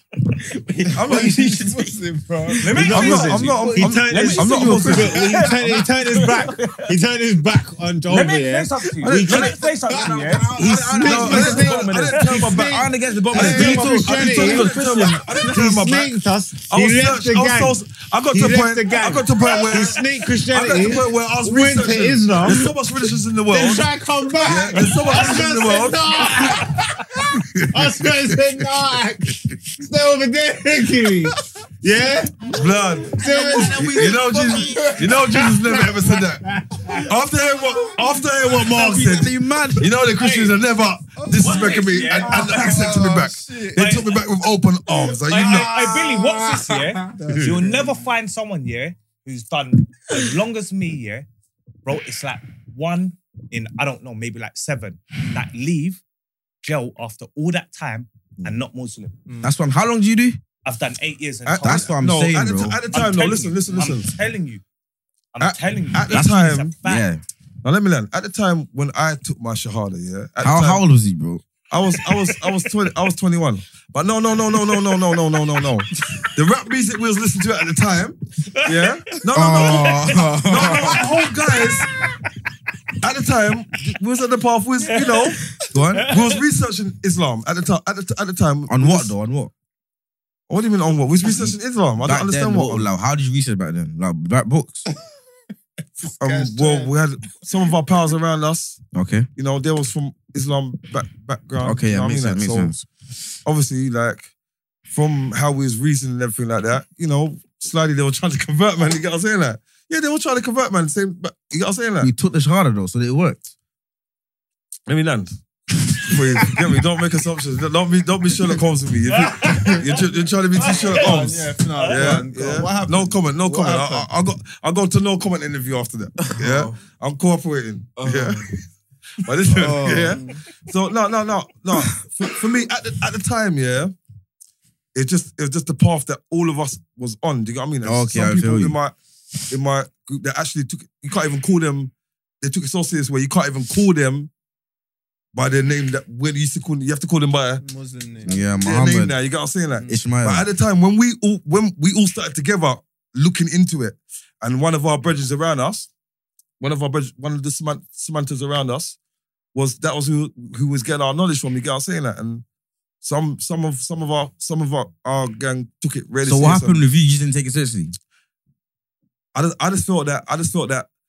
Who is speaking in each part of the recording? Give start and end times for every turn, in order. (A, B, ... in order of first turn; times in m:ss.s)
0:00.6-0:01.9 A
0:00.9-0:01.6 B
0:01.0-0:02.7 C
0:02.5-0:05.0 A
0:02.6-0:06.8 D
0:02.8-0:09.6 E
0:02.8-0:05.3 B
0:05.0-0:05.8 C
0:08.1-0:10.5 D
0:09.0-0:09.7 B
0:09.6-0:14.8 C
0:09.9-0:16.0 A
0:10.6-0:11.5 E
0:10.7-0:16.1 B
0:13.3-0:14.7 E
0:15.5-0:22.7 E
0:16.7-0:23.9 B
0:19.4-0:20.0 C
0:23.5-0:27.1 E
0:24.4-0:26.6 B
0:24.4-0:25.4 C
0:27.4-0:28.4 B
0:27.7-0:32.4 E
0:31.0-0:31.3 C
0:32.5-0:36.4 B
0:32.5-0:36.2 C
0:33.1-0:34.1 E
0:33.2-0:34.8 A
0:36.4-0:37.0 E
0:37.0-0:45.8 B
0:37.7-0:38.9 C
0:38.7-0:39.9 A
0:40.2-0:40.6 D
0:41.2-0:43.8 C
0:41.4-0:42.8 D
0:43.8-0:44.2 D
0:44.9-0:48.0 C
0:45.3-0:51.2 D
0:47.3-0:47.6 B
0:51.8-0:56.0 D
0:56.6-0:59.1 D
0:59.3-0:59.5 C
0:59.4-1:00.4 A
1:00.6-1:01.9 D
1:01.5-1:02.8 A
1:01.5-1:04.1 B
1:02.9-1:04.6 D
1:05.3-1:07.0 D
1:05.4-1:06.7 B
1:06.8-1:07.2 A
1:07.6-1:10.8 B
1:10.4-1:11.4 A
1:11.7-1:21.9 B
1:18.5-1:20.2 D
1:19.3-1:21.0 A
1:20.8-1:21.7 D
1:23.0-1:25.4 B
1:24.8-1:25.4 D
1:25.6-1:26.1 A
1:25.9-1:26.4 D
1:26.0-1:29.1 B
1:28.7-1:29.5 A
1:30.5-1:32.9 B
1:31.2-1:34.9 A
1:36.0-1:36.9 C
1:36.2-1:38.8 B
1:38.9-1:39.3 A
1:39.4-1:42.8 B
1:41.6-1:42.8 A
1:43.4-1:44.3 B
1:44.9-1:52.1 B
1:52.0-1:53.5 A
1:54.9-1:55.4 B
1:56.0-2:08.5 B
1:59.1-1:59.9 D
2:00.6-2:02.2 D
2:00.6-2:04.1 C
2:06.2-2:06.7 A
2:08.0-2:08.4 A
2:09.2-2:13.9 B
2:09.5-2:10.4 C
2:14.9-2:18.9 B
2:17.8-2:18.8 A
2:19.5-2:24.3 B
2:25.3-2:27.6 B
2:27.6-2:28.6 C
2:28.2-2:29.1 A
2:28.6-2:35.9 B
2:29.9-2:30.5 A
2:36.6-2:39.0 B
2:39.5-2:42.4 B
2:43.0-2:46.8 B
2:46.2-2:47.9 A
2:49.3-2:50.9 B